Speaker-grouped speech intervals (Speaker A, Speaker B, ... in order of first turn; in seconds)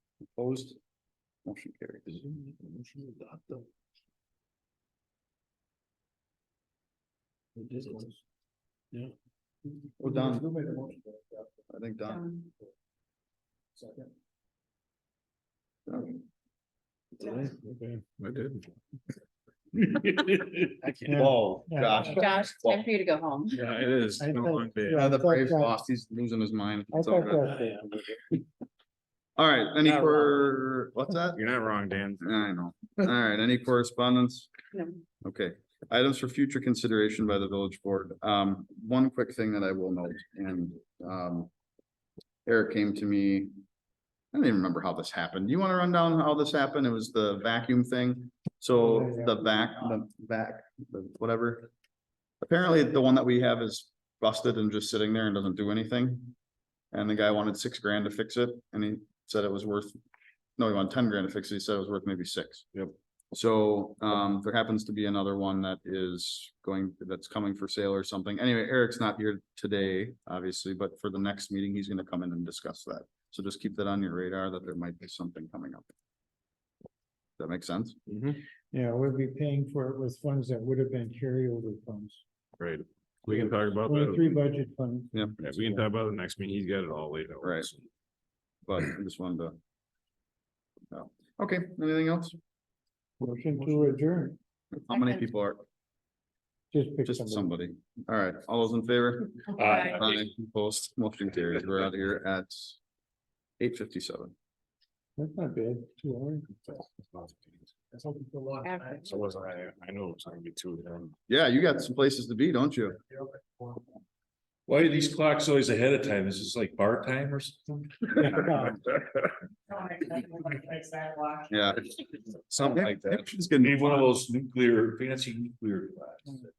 Speaker A: 0.3-0.8, 1.4-2.3, 10.0-10.6, 11.7-12.2, 15.9-16.2, 21.3-22.8, 25.0-27.5, 29.4-31.4, 32.2-34.5, 35.2-41.5, 42.5-43.6, 44.3-51.7, 52.4-56.4, 56.9-60.0, 60.6-75.9, 77.4-78.0, 87.4-87.7, 88.7-89.6, 90.9-92.4, 94.7-95.6, 97.0-102.8, 103.6-104.3, 111.3-113.0, 121.5-121.9, 122.5-124.1
Speaker B: 12.1-12.5, 22.2-23.6, 34.7-35.0, 94.9-95.3, 99.6-100.0, 108.6-109.2
Speaker C: 18.2-18.6, 23.5-25.0, 31.4-32.3, 82.6-84.4, 85.4-87.9, 99.8-100.1, 109.0-111.1
Speaker D: 21.1-22.4, 24.2-25.8, 26.9-27.8, 48.7-49.4, 78.7-82.2, 83.4-85.9, 93.2-94.4, 96.7-97.5, 105.2-106.6, 118.2-118.8
Speaker E: 114.7-118.2, 122.6-126.4